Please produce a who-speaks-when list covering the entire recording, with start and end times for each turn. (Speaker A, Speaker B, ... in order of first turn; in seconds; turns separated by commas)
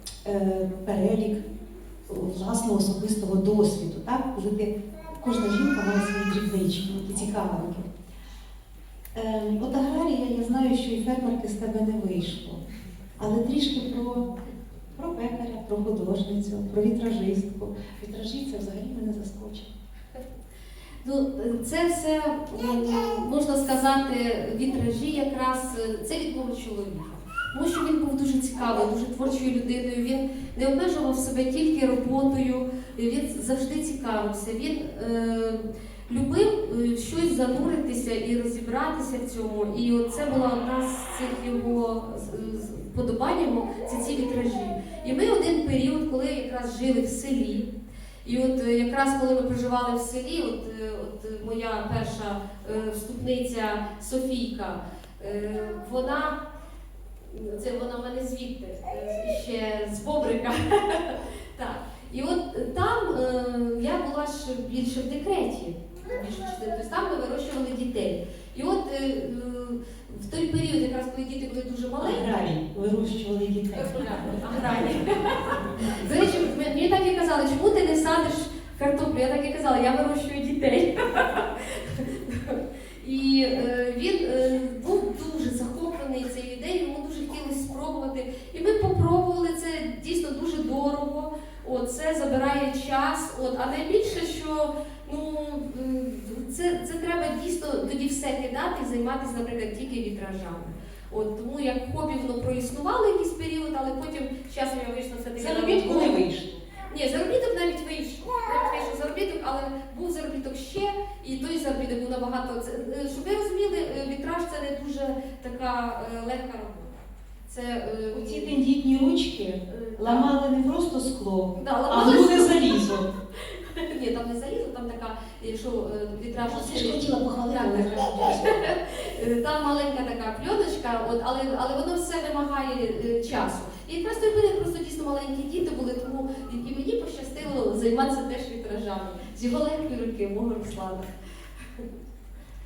Speaker A: 0.2-1.4, Speaker A: 2.1-7.9, Speaker A: 9.1-12.6, Speaker A: 13.2-14.3, Speaker A: 14.9-19.7, Speaker B: 21.0-47.7, Speaker B: 48.2-56.4, Speaker B: 57.2-72.3, Speaker A: 72.0-74.6, Speaker B: 73.8-106.2, Speaker A: 75.7-76.1, Speaker A: 105.3-106.6, Speaker B: 106.8-116.9, Speaker B: 117.5-118.5, Speaker A: 118.1-123.0, Speaker B: 119.7-120.3, Speaker B: 121.5-141.8, Speaker A: 126.4-128.4